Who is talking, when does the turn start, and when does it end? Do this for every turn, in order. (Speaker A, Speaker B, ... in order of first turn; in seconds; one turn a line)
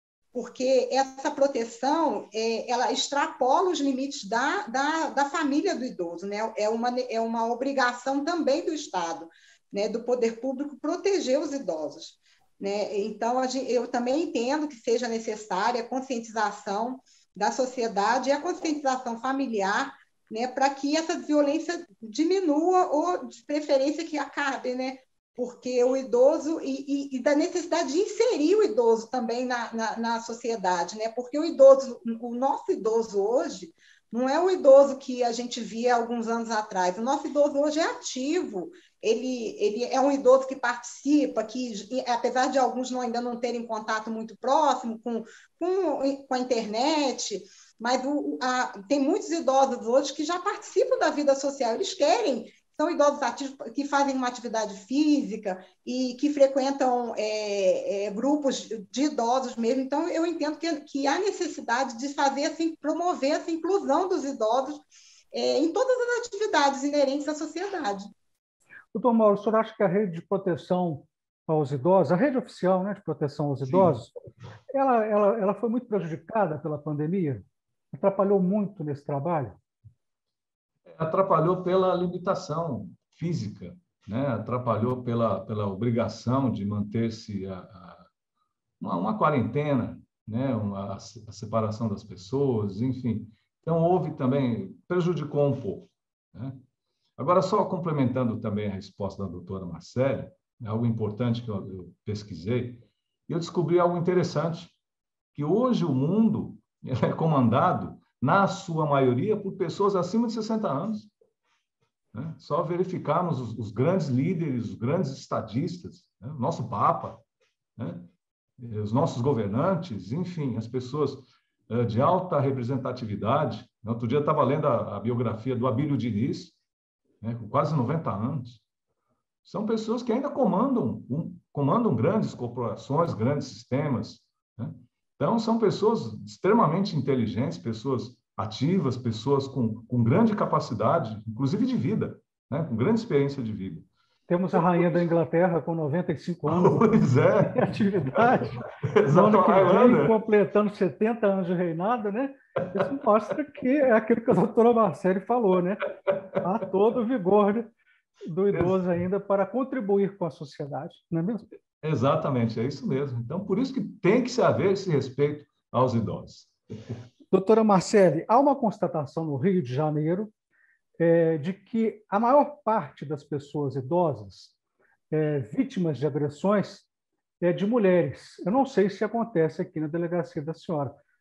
Speaker A: 0.3-64.8
Speaker A: 65.3-68.1
Speaker B: 68.9-74.1
Speaker B: 74.7-79.6
Speaker C: 80.9-88.0
Speaker C: 88.8-96.6
Speaker C: 97.2-104.8
Speaker C: 105.3-111.1
Speaker C: 112.1-117.2
Speaker C: 117.8-126.5
Speaker C: 127.2-128.6
Speaker C: 129.4-143.9
Speaker B: 144.3-157.7
Speaker C: 144.5-144.8
Speaker C: 146.4-147.7
Speaker C: 148.8-150.2
Speaker B: 158.2-161.5
Speaker C: 161.8-166.9
Speaker B: 167.3-170.3
Speaker B: 171.0-174.5
Speaker B: 175.1-176.9
Speaker B: 177.4-180.9